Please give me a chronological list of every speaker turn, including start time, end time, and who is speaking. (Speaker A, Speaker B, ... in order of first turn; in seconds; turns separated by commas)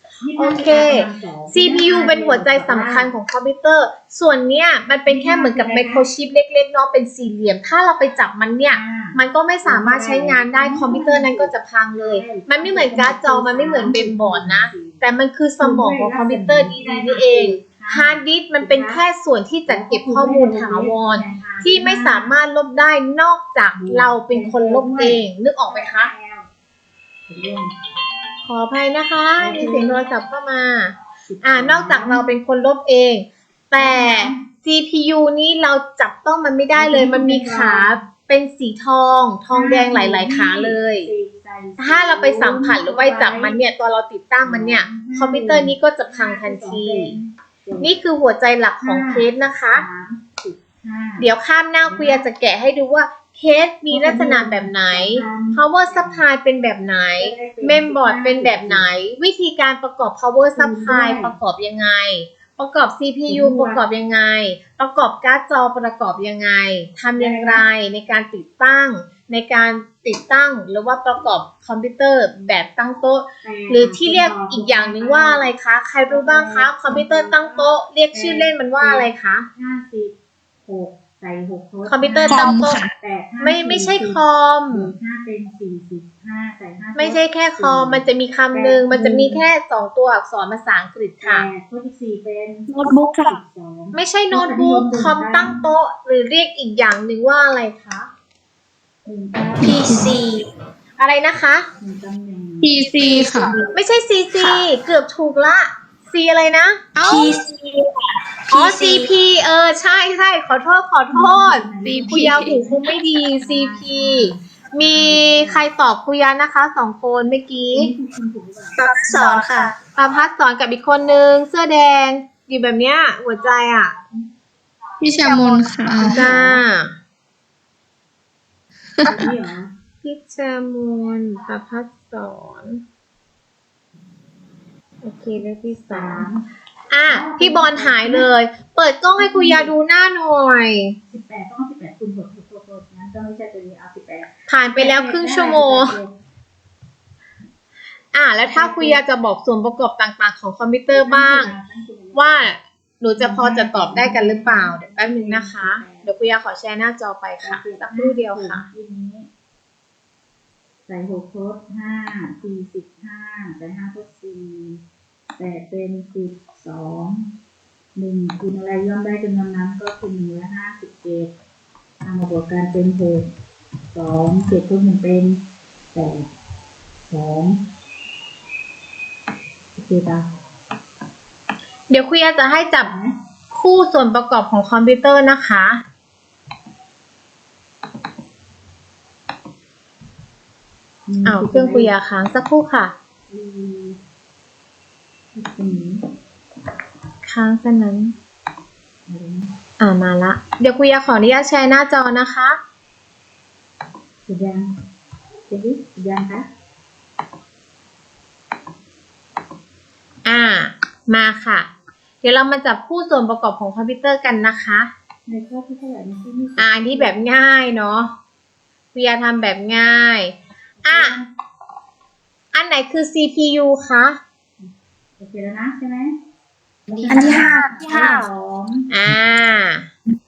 Speaker A: 0.2-3.1, Speaker B: 0.4-26.1, Speaker A: 5.1-6.1, Speaker A: 8.7-15.0, Speaker A: 15.6-19.0, Speaker A: 19.7-22.3, Speaker A: 23.8-26.5, Speaker A: 27.3-27.7, Speaker B: 28.4-41.1, Speaker A: 29.4-30.0, Speaker A: 31.3-32.3, Speaker A: 33.8-34.5, Speaker A: 36.7-38.0, Speaker A: 39.5-43.6, Speaker B: 41.8-47.1, Speaker A: 44.4-48.0, Speaker B: 47.8-49.9, Speaker A: 48.8-51.3, Speaker B: 51.2-79.5, Speaker A: 51.9-52.3, Speaker A: 53.9-56.2, Speaker A: 57.2-58.9, Speaker A: 60.6-61.3, Speaker A: 63.3-63.9, Speaker A: 67.2-67.7, Speaker A: 72.4-72.7, Speaker A: 73.4-75.5, Speaker A: 76.1-80.1, Speaker A: 80.7-89.5, Speaker B: 81.9-82.9, Speaker C: 82.3-82.9, Speaker B: 83.4-84.9, Speaker B: 87.0-91.5, Speaker A: 91.2-95.7, Speaker C: 92.7-93.4, Speaker B: 93.9-98.1, Speaker A: 99.1-100.0, Speaker C: 99.6-100.4, Speaker B: 101.0-101.7, Speaker A: 101.8-103.6, Speaker D: 102.9-103.5, Speaker C: 103.0-103.5, Speaker B: 103.7-106.9, Speaker C: 104.4-104.6, Speaker D: 107.0-107.3, Speaker C: 107.0-107.9, Speaker C: 108.5-109.1, Speaker B: 108.5-117.9, Speaker A: 111.1-112.8, Speaker C: 111.8-112.6, Speaker A: 113.4-115.6, Speaker A: 117.7-118.8, Speaker C: 118.8-119.7, Speaker B: 120.0-124.0, Speaker D: 125.0-126.1, Speaker C: 125.2-126.3, Speaker A: 126.0-126.6, Speaker B: 126.0-126.9, Speaker A: 129.0-129.7, Speaker B: 130.0-132.8, Speaker B: 135.0-136.3, Speaker A: 135.9-136.5, Speaker B: 136.9-140.9, Speaker A: 137.1-138.3, Speaker A: 139.2-139.8, Speaker A: 141.1-146.2, Speaker B: 144.5-145.9, Speaker B: 148.1-151.5, Speaker A: 148.4-149.0, Speaker A: 150.9-152.5, Speaker B: 152.1-158.6, Speaker A: 153.2-156.1, Speaker A: 157.4-159.3, Speaker A: 160.9-164.8, Speaker A: 165.4-167.3, Speaker A: 168.0-171.3, Speaker A: 172.0-173.3, Speaker A: 173.9-175.4, Speaker A: 175.9-176.3, Speaker A: 177.1-177.6, Speaker A: 179.8-180.3, Speaker B: 181.9-182.9, Speaker A: 182.8-183.2, Speaker B: 183.5-185.8, Speaker A: 191.1-191.9, Speaker B: 191.2-192.9, Speaker A: 193.3-194.0, Speaker A: 195.3-196.0, Speaker B: 197.3-198.1, Speaker A: 199.1-199.5, Speaker B: 199.8-202.6, Speaker A: 204.3-204.7, Speaker A: 205.5-206.5, Speaker B: 210.3-211.7, Speaker B: 212.2-214.9, Speaker A: 215.3-217.2, Speaker B: 216.6-218.1, Speaker B: 218.9-220.3, Speaker A: 220.8-221.3, Speaker B: 220.8-221.2, Speaker B: 222.5-224.2, Speaker A: 224.6-226.2, Speaker A: 226.9-228.9, Speaker C: 227.1-228.2, Speaker B: 228.9-229.9